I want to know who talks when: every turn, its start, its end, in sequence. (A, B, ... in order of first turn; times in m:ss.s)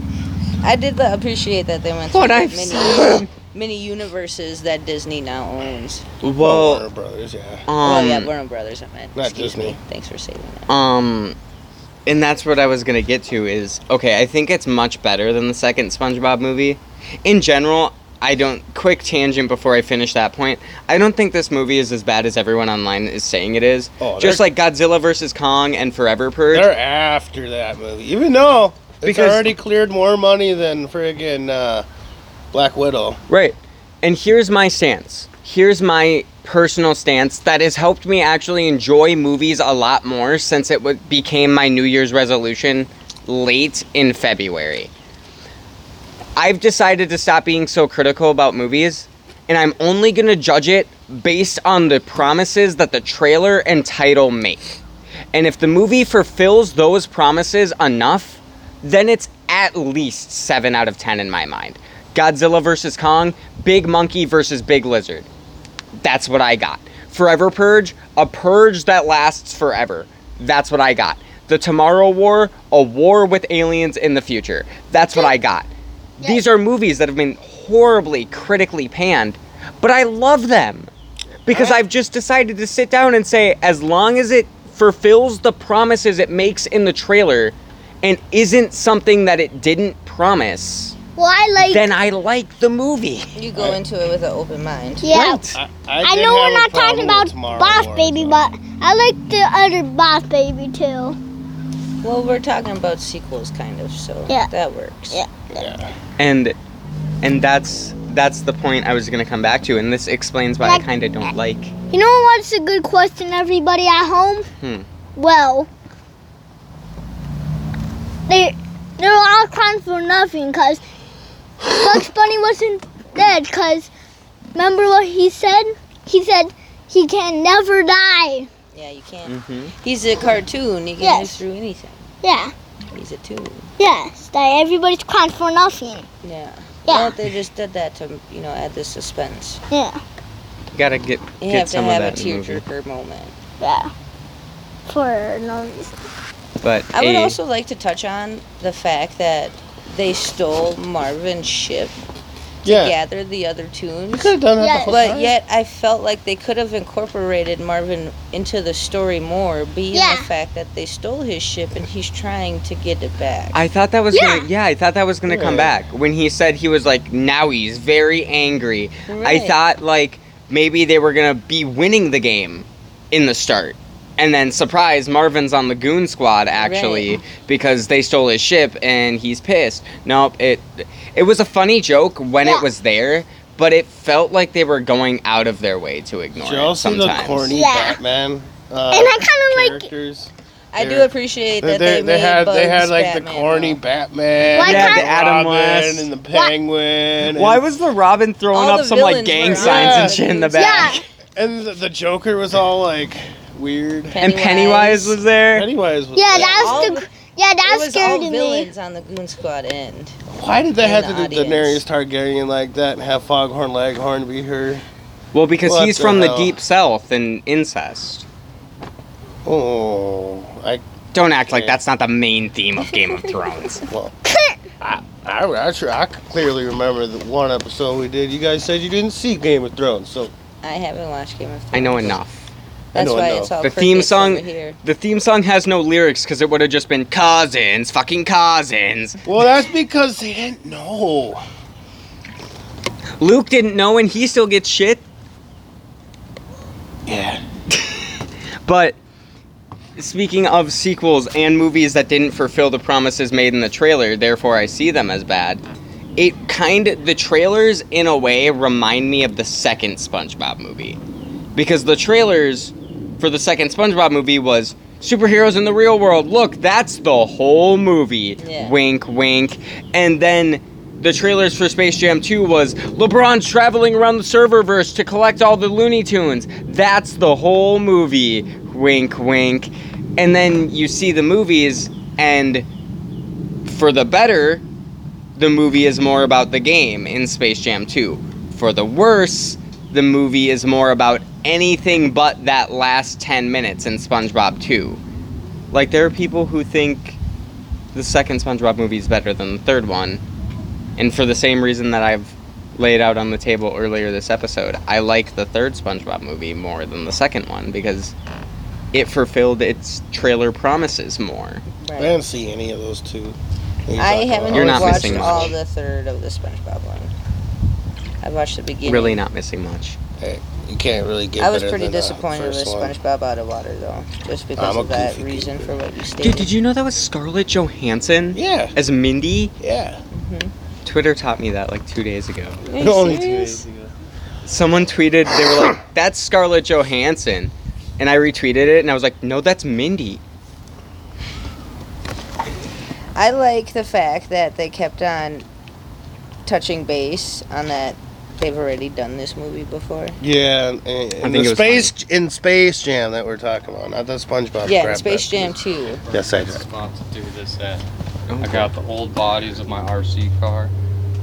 0:00.6-0:06.0 A
0:02.1-0:03.3 B
0:06.2-0:06.8 B
0:06.4-0:07.7 C
0:07.7-0:08.3 B
0:07.8-0:10.7 A
0:09.2-0:09.8 C
0:10.7-0:11.4 B
0:12.0-0:26.7 B
0:24.0-0:24.5 C
0:26.5-0:31.8 C
0:29.0-0:29.5 B
0:32.5-0:33.2 C
0:33.3-0:44.9 B
0:46.4-0:54.8 B
0:55.3-1:05.3 B
1:06.0-1:20.9 B
1:16.2-1:16.4 D
1:21.4-1:21.8 C
1:21.4-1:31.0 B
1:31.2-1:31.9 D
1:31.6-1:33.3 B
1:33.3-1:35.3 A
1:33.5-1:33.8 C
1:35.0-1:35.4 D
1:35.1-1:35.6 B
1:35.5-1:38.4 C
1:36.0-1:41.2 D
1:42.0-1:45.2 A
1:45.1-1:45.7 D
1:45.5-1:45.9 C
1:46.2-1:46.6 B
1:47.2-1:51.7 B
1:50.6-1:50.9 D
1:51.9-1:54.5 D
1:54.6-1:54.8 B
1:55.2-1:55.7 D
1:58.3-2:00.8 D
2:01.6-2:03.9 D
2:04.5-2:08.5 D
2:08.7-2:12.0 A
2:09.2-2:09.7 B
2:11.0-2:11.4 D
2:12.2-2:12.5 D
2:12.9-2:13.7 A
2:13.8-2:16.1 D
2:16.2-2:19.6 A
2:16.9-2:17.2 D
2:19.7-2:20.0 D
2:20.7-2:22.6 B
2:21.4-2:23.3 A
2:23.6-2:23.9 D
2:24.9-2:25.9 D
2:26.6-2:27.4 B
2:26.9-2:32.0 A
2:32.6-2:34.3 A
2:32.6-2:33.0 C
2:34.1-2:35.3 C
2:34.6-2:35.2 D
2:34.9-2:43.6 A
2:39.9-2:40.3 D
2:43.5-3:07.5 B
2:44.1-2:44.5 D
2:45.3-2:45.7 C
2:49.1-2:49.5 A
2:56.6-2:57.2 A
3:02.4-3:02.7 D
3:06.4-3:17.6 C
3:07.5-3:08.0 D
3:08.9-3:09.9 D
3:10.7-3:13.8 A
3:14.5-3:15.1 D
3:14.6-3:16.1 B
3:17.3-3:21.0 B
3:18.5-3:20.9 A
3:19.4-3:20.2 C
3:20.5-3:21.0 D
3:21.4-3:24.3 C
3:24.1-3:25.2 A
3:24.2-3:25.7 B
3:25.5-3:26.9 C
3:26.2-3:28.7 D
3:26.3-3:27.1 A
3:27.6-3:30.2 A
3:30.3-3:34.8 C
3:30.8-3:31.8 A
3:35.3-3:38.2 B
3:35.6-3:36.6 C
3:39.4-3:40.8 C
3:41.1-3:43.8 B
3:41.5-3:41.8 C
3:43.9-3:44.1 C
3:44.2-3:44.6 D
3:44.8-3:50.3 C
3:50.6-3:52.2 A
3:51.7-3:52.5 B
3:52.9-3:53.5 C
3:52.9-3:54.8 A
3:53.6-3:59.2 B
3:59.2-4:01.4 C
4:03.2-4:05.0 B
4:07.0-4:07.4 C
4:07.7-4:09.0 B
4:10.0-4:15.6 B
4:16.2-4:21.0 B
4:21.5-4:42.6 B
4:28.4-4:28.7 A
4:43.6-4:44.6 B
4:45.4-4:55.0 B
4:55.7-4:57.2 B
4:57.9-5:00.2 B
5:01.0-5:08.1 B
5:08.9-5:11.6 B
5:11.8-5:12.2 A
5:12.0-5:15.6 C
5:14.0-5:17.1 A
5:14.5-5:15.6 B
5:18.2-5:19.2 A
5:18.8-5:20.0 B
5:20.2-5:23.0 C
5:21.4-5:26.5 A
5:24.6-5:25.7 C
5:26.2-5:29.5 B
5:28.3-5:28.7 C
5:29.6-5:30.0 C
5:30.1-5:30.5 A
5:30.8-5:32.6 B
5:32.6-5:33.9 C
5:32.7-5:33.6 A
5:34.4-5:40.2 B
5:43.1-5:45.4 A
5:46.4-5:50.2 A
5:50.2-5:55.6 C
5:51.2-5:51.9 B
5:54.6-5:56.0 A
5:55.9-5:57.8 E
5:56.1-5:56.6 C
5:58.3-5:58.7 B
5:58.4-6:00.7 E